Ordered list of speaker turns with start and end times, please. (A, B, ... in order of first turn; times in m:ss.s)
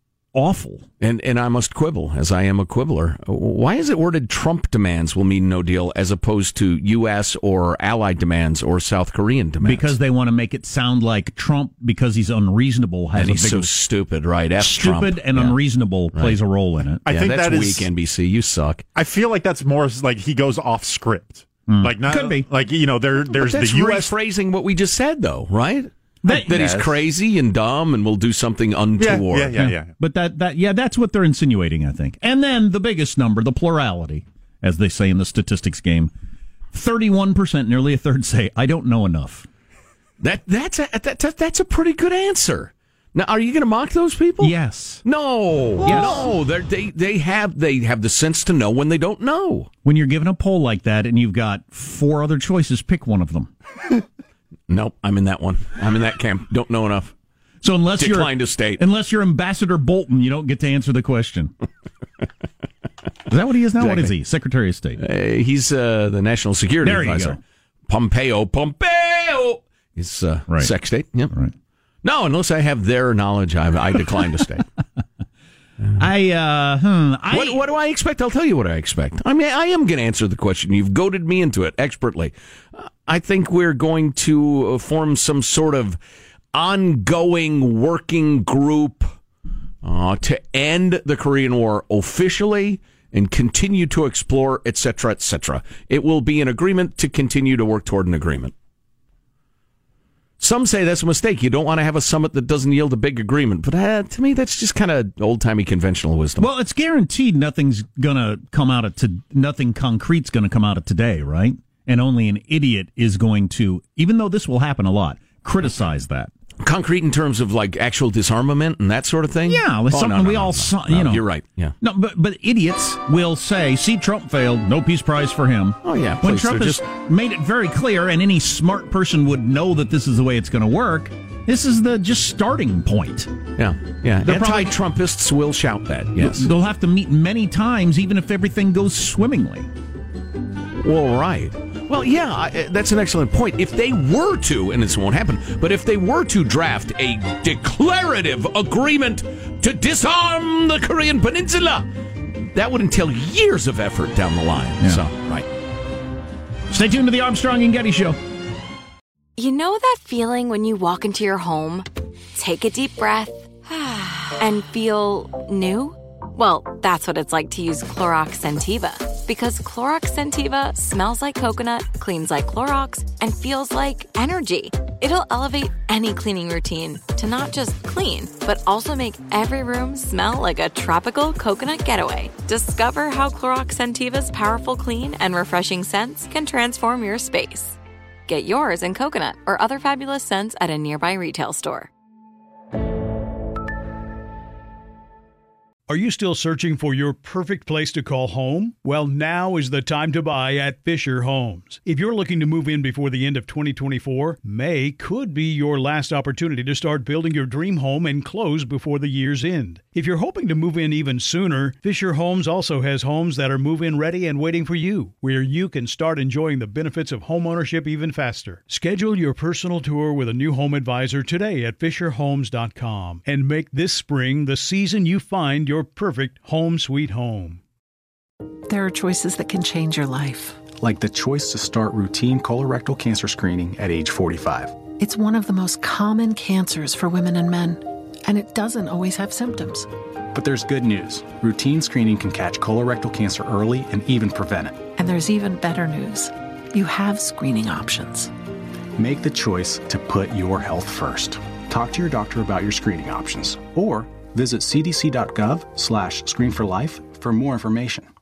0:00.4-0:00.9 A
0:01.0-0:09.9 B
0:09.6-0:13.7 A
0:13.2-0:15.6 B
0:14.6-0:17.0 A
0:17.0-0:17.9 C
0:17.1-0:18.8 B
0:19.0-0:24.1 C
0:21.7-0:22.5 A
0:23.3-0:29.6 B
0:26.2-0:27.0 A
0:29.0-0:29.9 C
0:29.6-0:36.1 A
0:36.7-0:39.5 A
0:40.2-0:49.7 B
0:44.4-0:45.0 A
0:45.8-0:46.3 A
0:49.8-0:53.5 A
0:54.7-0:57.1 B
0:57.6-1:01.5 A
0:58.0-0:58.8 B
1:03.3-1:05.0 A
1:03.8-1:04.1 B
1:05.0-1:11.3 B
1:06.8-1:07.4 A
1:12.0-1:14.6 B
1:16.0-1:17.6 A
1:17.3-1:26.0 B
1:26.5-1:29.1 B
1:29.8-1:38.5 B
1:40.4-1:46.5 B
1:46.4-1:56.3 A
1:56.6-2:01.8 B
1:59.5-2:01.2 A
2:01.8-2:13.3 A
2:05.8-2:06.8 B
2:13.6-2:16.5 B
2:14.2-2:14.7 A
2:16.2-2:19.7 A
2:20.8-2:31.9 B
2:32.4-2:35.5 B
2:36.7-2:38.2 A
2:39.4-3:11.9 D
3:15.9-3:47.6 E
3:48.7-3:50.7 F
3:50.8-3:54.8 G
3:55.0-3:59.9 F
4:00.3-4:04.8 G
4:05.0-4:08.3 F
4:09.0-4:18.1 G